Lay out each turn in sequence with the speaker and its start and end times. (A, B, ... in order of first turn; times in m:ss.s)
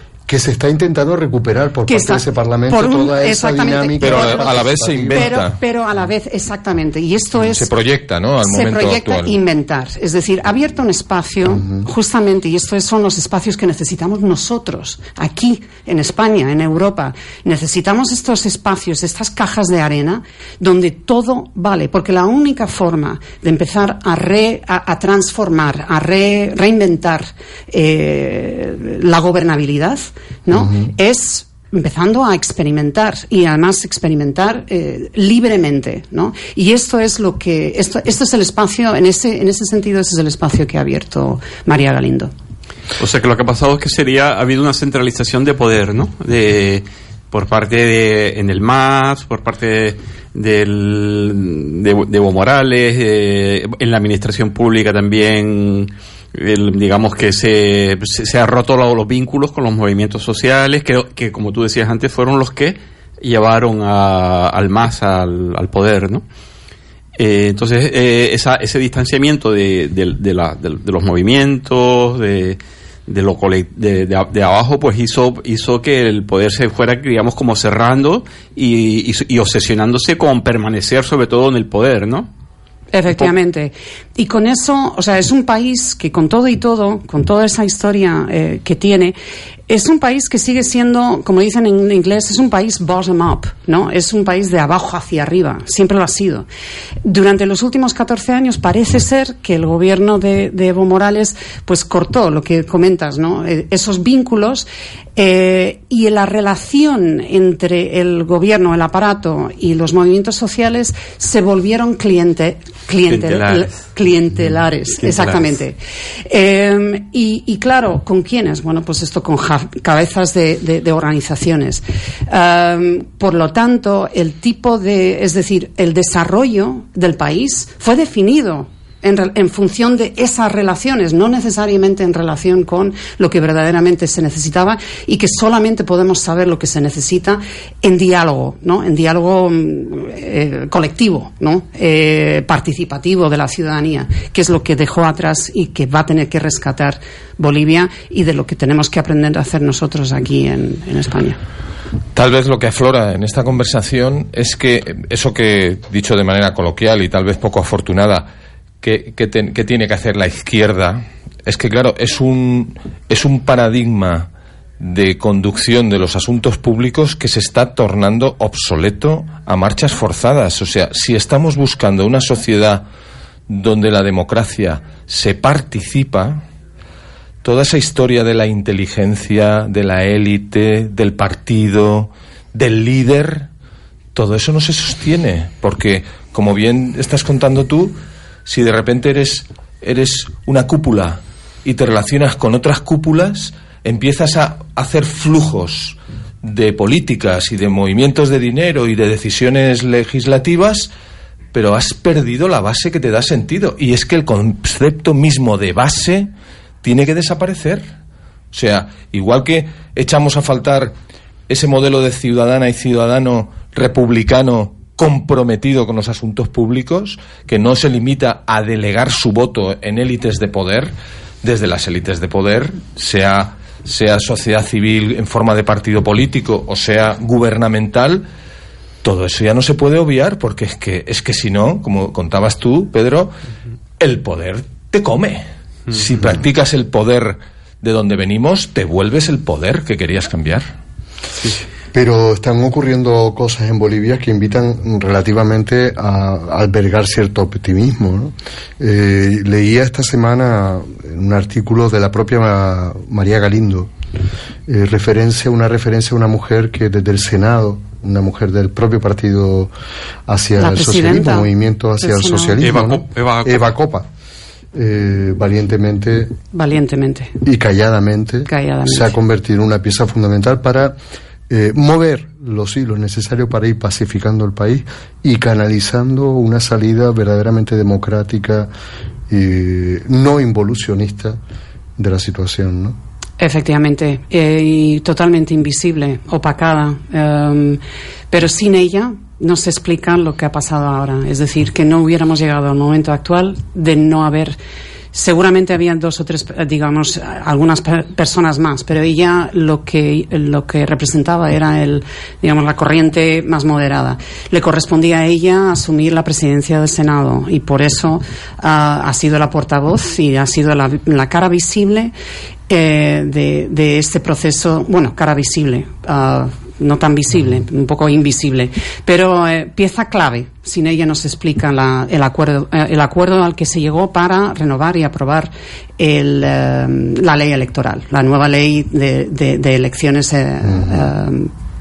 0:00.3-0:05.4 A
0:01.9-0:07.7 B
0:04.0-0:05.6 C
0:07.5-0:09.4 C
0:08.4-0:42.3 B
0:30.5-0:30.9 A
0:43.0-1:06.2 D
1:07.2-1:22.3 D
1:22.9-1:29.2 B
1:29.7-1:36.5 B
1:37.0-1:55.8 B
1:53.1-1:53.9 D
1:55.0-1:55.6 D
1:56.3-2:31.4 B
2:32.1-2:38.3 C
2:38.8-2:44.3 C
2:44.8-2:52.8 C
2:53.5-2:56.4 C
2:57.4-3:03.5 C
3:04.1-3:20.9 C
3:21.5-3:26.3 C
3:26.8-3:27.9 C
3:28.5-3:30.9 C
3:31.5-3:48.3 C
3:49.0-3:53.4 C
3:54.0-4:00.7 C
4:01.9-4:13.9 A
4:14.7-4:19.7 A
4:20.3-4:24.1 A
4:20.6-4:22.7 B
4:22.6-4:23.7 D
4:24.7-4:26.4 A
4:26.5-4:27.4 B
4:27.4-4:31.0 A
4:28.5-4:29.2 B
4:31.5-4:38.7 A
4:39.3-4:41.4 A
4:42.0-4:43.0 A
4:43.4-4:47.8 B
4:48.3-4:54.6 B
4:55.1-5:12.1 B
5:12.7-5:31.5 B
5:30.7-5:31.0 A